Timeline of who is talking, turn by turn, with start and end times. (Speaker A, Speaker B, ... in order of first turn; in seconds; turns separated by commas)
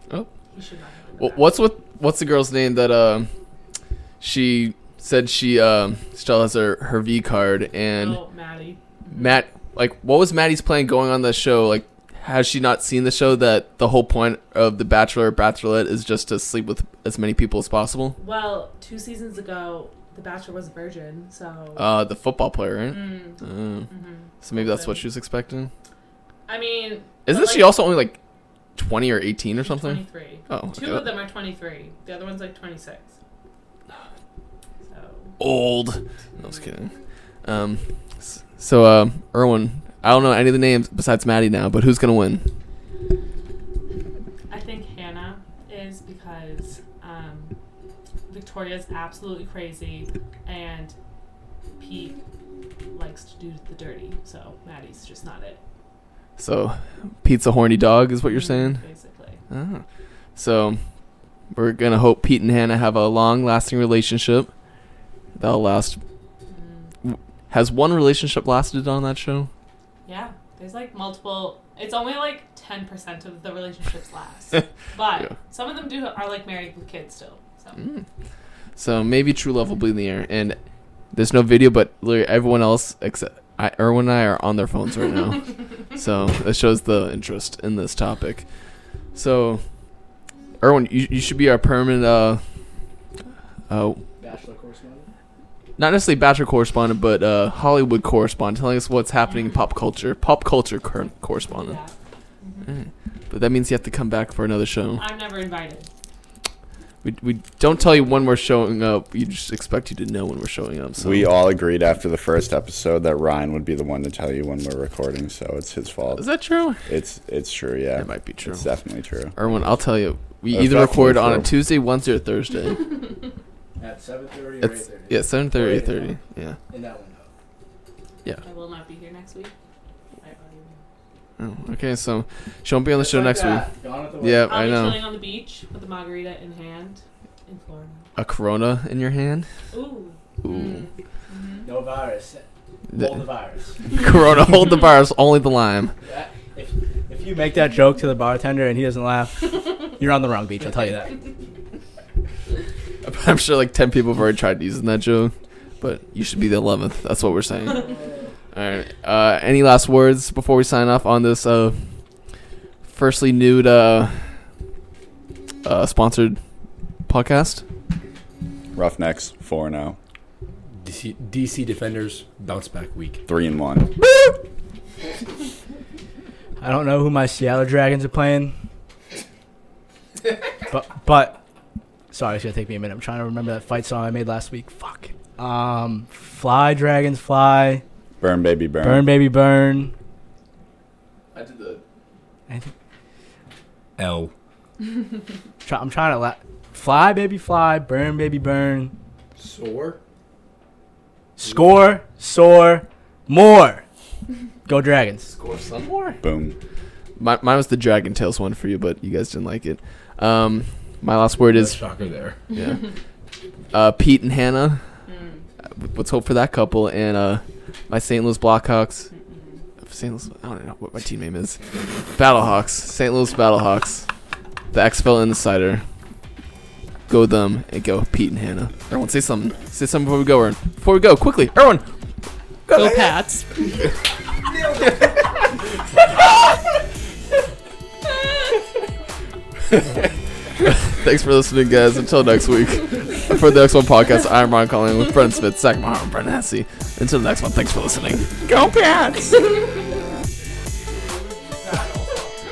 Speaker A: 0.5-1.7, Speaker B: 1.2-3.3, Speaker B: 4.2-8.2, Speaker A: 7.9-9.4, Speaker B: 9.1-18.2, Speaker A: 18.2-21.9, Speaker B: 21.8-23.9, Speaker A: 22.9-25.1, Speaker B: 24.4-25.7, Speaker A: 26.5-27.8, Speaker B: 27.2-28.2, Speaker B: 28.8-31.1, Speaker A: 29.6-33.1, Speaker A: 34.8-35.3, Speaker B: 35.4-36.9, Speaker B: 37.5-42.4, Speaker A: 44.5-47.5, Speaker A: 48.3-51.0, Speaker A: 51.8-52.2, Speaker A: 52.9-55.6, Speaker B: 56.4-58.8, Speaker A: 58.2-59.4, Speaker B: 59.5-59.9, Speaker B: 60.4-60.8, Speaker B: 61.5-64.5, Speaker B: 65.4-66.0, Speaker A: 66.5-66.9, Speaker B: 67.0-69.5, Speaker A: 70.1-77.8, Speaker B: 77.8-78.0, Speaker B: 78.8-80.6, Speaker B: 81.1-88.5, Speaker B: 89.2-89.6, Speaker B: 90.6-92.4, Speaker B: 93.7-94.0, Speaker C: 94.2-95.1, Speaker B: 95.8-101.8, Speaker A: 101.5-102.7, Speaker B: 102.7-105.1, Speaker A: 105.0-105.9, Speaker B: 107.0-111.3, Speaker D: 111.0-116.3, Speaker B: 116.1-116.8, Speaker D: 116.8-119.3, Speaker B: 118.0-118.7, Speaker B: 119.4-123.0, Speaker D: 120.5-121.5, Speaker C: 123.8-126.2, Speaker B: 124.6-126.6, Speaker C: 126.7-127.3, Speaker A: 128.4-129.5, Speaker A: 130.2-130.8, Speaker B: 131.4-135.2, Speaker C: 132.9-134.5, Speaker A: 134.4-138.1, Speaker B: 138.2-139.5, Speaker A: 139.7-141.7, Speaker B: 140.4-140.9, Speaker C: 141.7-142.4, Speaker B: 142.9-143.2, Speaker C: 143.0-143.8, Speaker B: 143.9-145.9, Speaker C: 146.0-151.2, Speaker B: 153.0-157.9, Speaker C: 157.8-158.3, Speaker B: 158.5-161.8, Speaker B: 162.9-164.2, Speaker B: 165.6-166.4, Speaker B: 167.1-167.6, Speaker D: 168.8-170.0, Speaker E: 170.8-173.2, Speaker D: 173.3-173.9, Speaker C: 176.6-178.6, Speaker C: 180.7-181.4, Speaker C: 182.1-187.8, Speaker D: 188.2-189.1, Speaker C: 188.8-189.9, Speaker B: 191.3-191.8, Speaker C: 192.5-192.7, Speaker E: 194.0-194.3, Speaker C: 195.6-198.9, Speaker E: 199.4-200.0, Speaker C: 201.4-203.8, Speaker E: 201.4-201.7, Speaker C: 204.7-205.3, Speaker B: 205.3-206.2, Speaker D: 206.2-206.6, Speaker B: 207.2-211.8, Speaker E: 211.5-212.4, Speaker B: 212.6-212.8, Speaker B: 213.7-214.8, Speaker A: 215.1-215.4, Speaker B: 215.8-219.1, Speaker A: 219.1-219.6, Speaker B: 219.8-224.1, Speaker B: 224.7-225.8, Speaker B: 227.1-231.8, Speaker A: 232.7-233.8, Speaker B: 239.7-240.1, Speaker B: 240.6-248.3, Speaker D: 248.4-249.4, Speaker B: 250.8-252.2